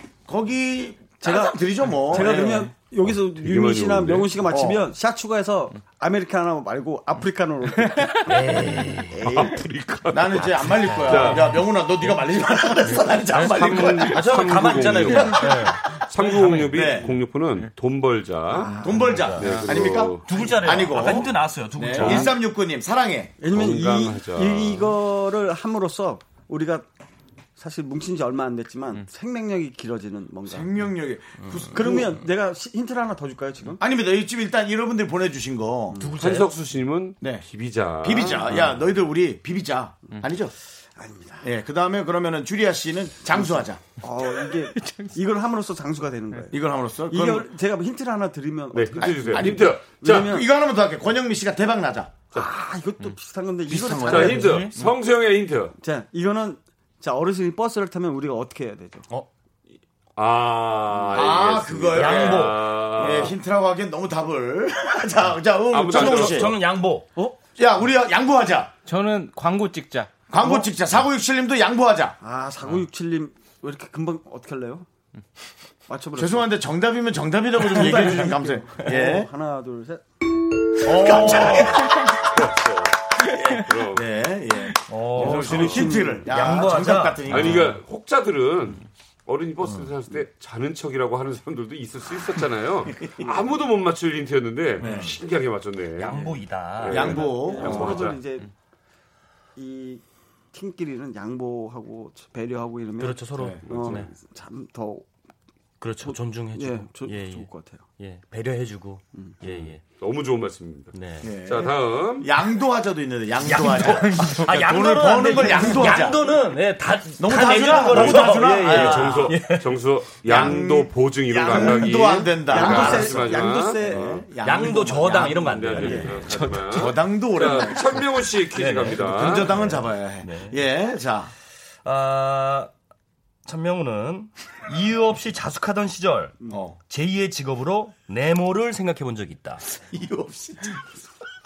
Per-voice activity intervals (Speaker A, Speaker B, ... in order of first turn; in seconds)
Speaker A: 0.3-2.7, 4.5-4.8, 9.2-9.5, 10.1-15.6, 16.4-17.1, 18.8-23.3, 30.5-32.1, 33.8-36.0, 38.0-40.5, 41.4-43.8, 46.5-47.5, 49.0-52.2, 53.7-54.5, 61.1-66.5, 67.5-68.7, 70.3-72.2, 76.2-79.3, 80.8-82.0, 83.2-87.8, 93.0-93.3, 94.8-95.2, 96.9-98.0, 103.3-103.7, 111.2-116.2, 117.2-119.4, 120.2-128.1, 128.9-131.3, 136.5-136.8, 139.8-140.8
Speaker B: 1.2-8.2, 18.5-19.3, 23.4-26.9, 27.6-30.7, 31.7-33.8, 41.0-41.5, 43.3-50.5, 52.3-54.7, 55.8-59.0, 70.4-70.7, 72.2-74.8, 75.9-76.5, 77.7-80.0, 85.2-86.5, 97.0-98.5, 99.5-105.1, 106.0-107.9, 122.4-125.2
Speaker C: 3.0-4.3, 9.1-11.5, 13.3-18.7, 19.4-20.5, 21.9-22.3, 23.4-24.9, 36.2-38.6, 48.7-50.4, 54.0-55.7, 60.1-63.4, 65.7-66.5, 81.8-84.0, 85.1-86.0, 87.3-98.2, 103.7-104.0, 110.0-112.3, 117.8-124.2, 125.3-129.5
Speaker D: 7.8-8.3, 44.4-45.2, 54.4-54.9, 68.8-70.2, 114.0-114.4, 126.2-126.9
Speaker E: 8.2-9.3, 10.6-11.6, 13.3-16.7, 18.9-22.4, 31.4-31.8, 36.0-36.5, 61.9-62.9, 65.9-67.1, 80.8-81.8, 84.9-87.6, 96.0-97.9, 103.0-104.1, 105.8-109.8, 110.9-111.3, 113.4-119.8, 124.4-126.3, 128.5-130.6, 131.8-132.7, 133.4-139.6